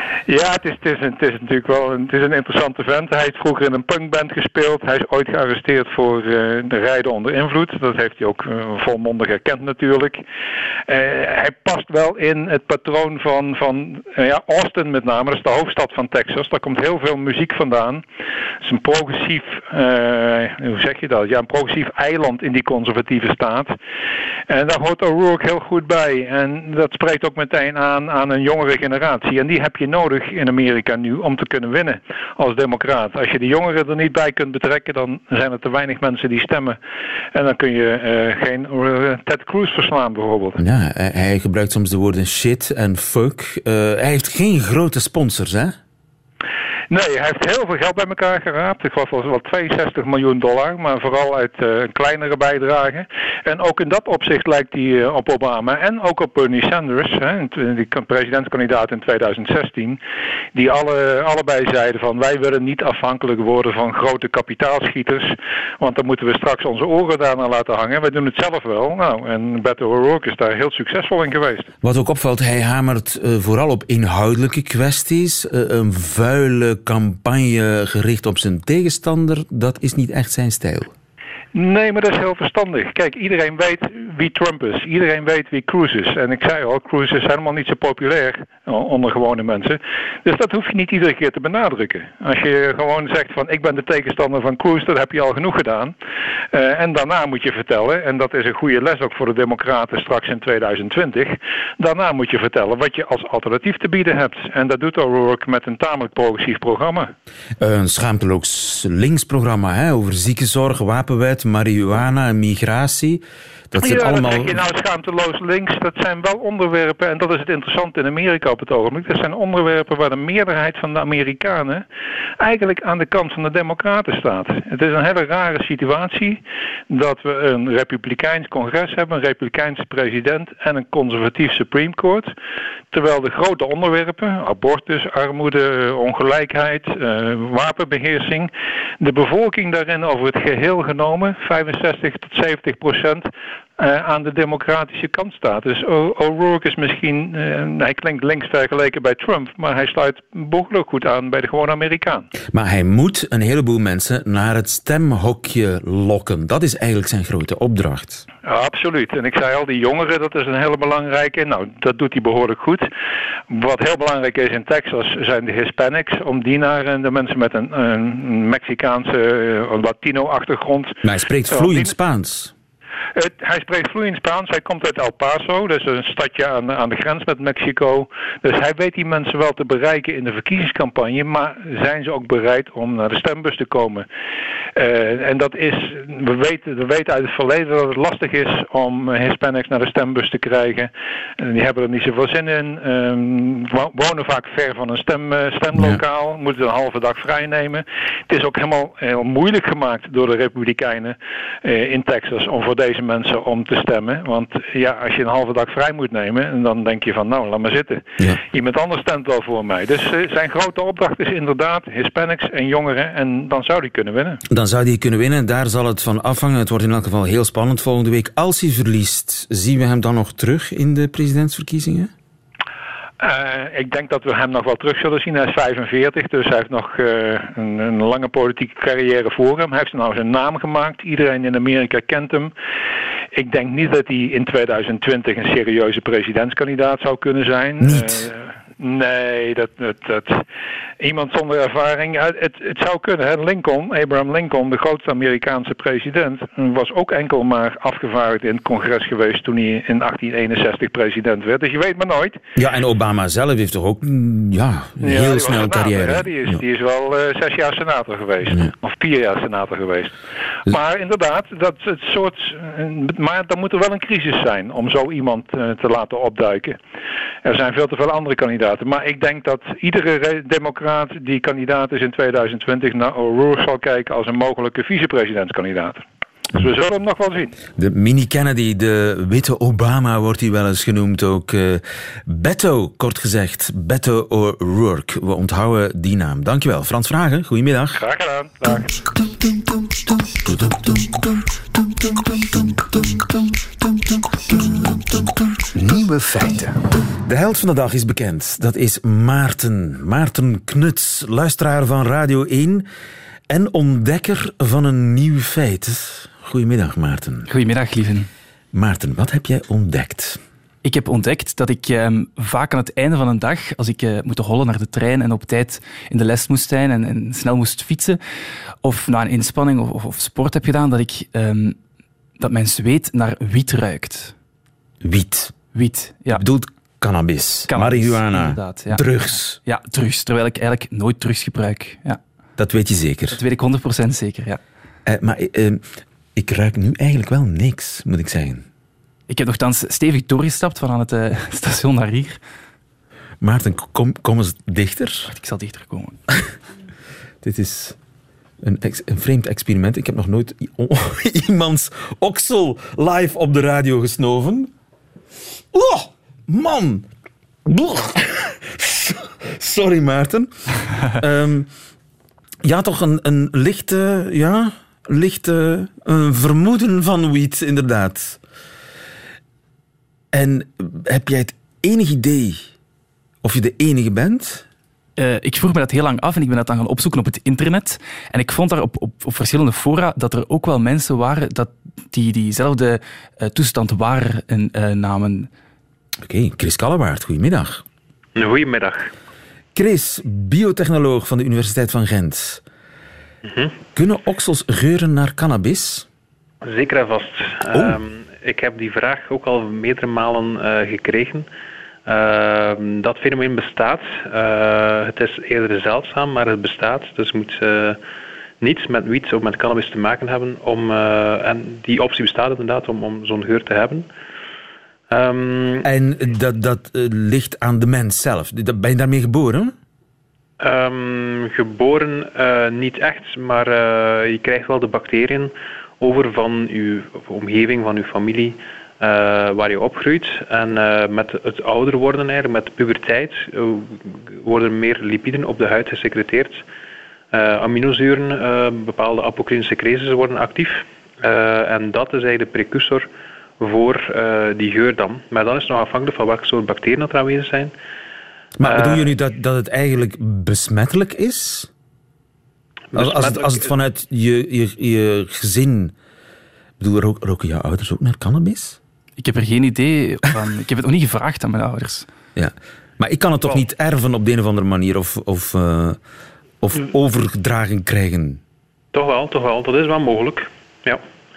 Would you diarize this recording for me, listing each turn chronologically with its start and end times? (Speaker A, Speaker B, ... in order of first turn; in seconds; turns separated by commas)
Speaker A: 0.3-10.2, Speaker A: 10.9-18.0, Speaker A: 18.6-23.8, Speaker A: 24.5-36.8, Speaker A: 37.3-40.6, Speaker B: 40.6-45.8, Speaker A: 46.9-60.0, Speaker A: 60.5-71.7, Speaker B: 71.8-80.9, Speaker A: 81.5-96.0, Speaker A: 96.5-107.1, Speaker B: 107.6-114.6, Speaker A: 113.8-121.8, Speaker A: 122.4-132.3, Speaker A: 132.9-152.3, Speaker B: 152.5-158.2, Speaker A: 158.5-162.9, Speaker A: 163.5-171.9, Speaker B: 171.0-172.5, Speaker A: 173.2-184.1, Speaker A: 184.8-214.4, Speaker B: 195.7-196.0, Speaker B: 214.5-222.1, Speaker A: 223.2-232.5, Speaker A: 233.3-240.4, Speaker B: 237.8-238.3, Speaker A: 241.0-252.4, Speaker B: 252.6-256.6, Speaker A: 255.0-266.8, Speaker B: 258.5-258.7, Speaker A: 267.4-277.6, Speaker B: 277.8-288.0, Speaker A: 287.9-289.0, Speaker B: 290.5-290.7, Speaker B: 294.9-295.2, Speaker B: 295.8-296.6, Speaker B: 297.2-302.9, Speaker B: 303.5-307.5, Speaker C: 307.5-308.3, Speaker B: 308.7-310.4, Speaker C: 310.8-318.2, Speaker C: 318.8-321.8, Speaker C: 322.4-324.3, Speaker B: 325.0-325.6, Speaker C: 325.7-326.4, Speaker B: 326.3-329.6, Speaker C: 327.7-329.1, Speaker C: 329.6-332.2, Speaker B: 332.6-333.4, Speaker C: 333.3-334.6, Speaker B: 335.1-335.9, Speaker B: 336.4-338.6, Speaker C: 339.3-342.4, Speaker B: 343.4-345.3, Speaker C: 345.3-346.2, Speaker B: 347.4-348.0, Speaker B: 348.6-354.7, Speaker B: 355.7-357.1, Speaker B: 357.7-360.5, Speaker B: 361.1-361.7, Speaker B: 362.6-368.4, Speaker B: 370.3-372.7, Speaker B: 373.4-374.6, Speaker C: 375.2-385.5, Speaker B: 386.2-387.8, Speaker D: 388.4-389.1, Speaker B: 389.8-392.6, Speaker D: 393.4-393.8, Speaker B: 393.9-396.1, Speaker D: 396.6-401.5, Speaker B: 397.7-398.0, Speaker D: 402.1-408.0, Speaker D: 408.6-414.1, Speaker D: 415.1-415.9, Speaker B: 415.8-419.8, Speaker D: 420.6-436.6, Speaker D: 437.3-443.1, Speaker D: 443.6-447.7, Speaker B: 448.6-451.7, Speaker D: 448.6-449.1, Speaker D: 452.9-453.7, Speaker B: 452.9-455.9, Speaker B: 456.8-458.8, Speaker C: 459.2-462.1, Speaker B: 462.4-466.0, Speaker B: 466.6-468.4, Speaker D: 468.9-471.0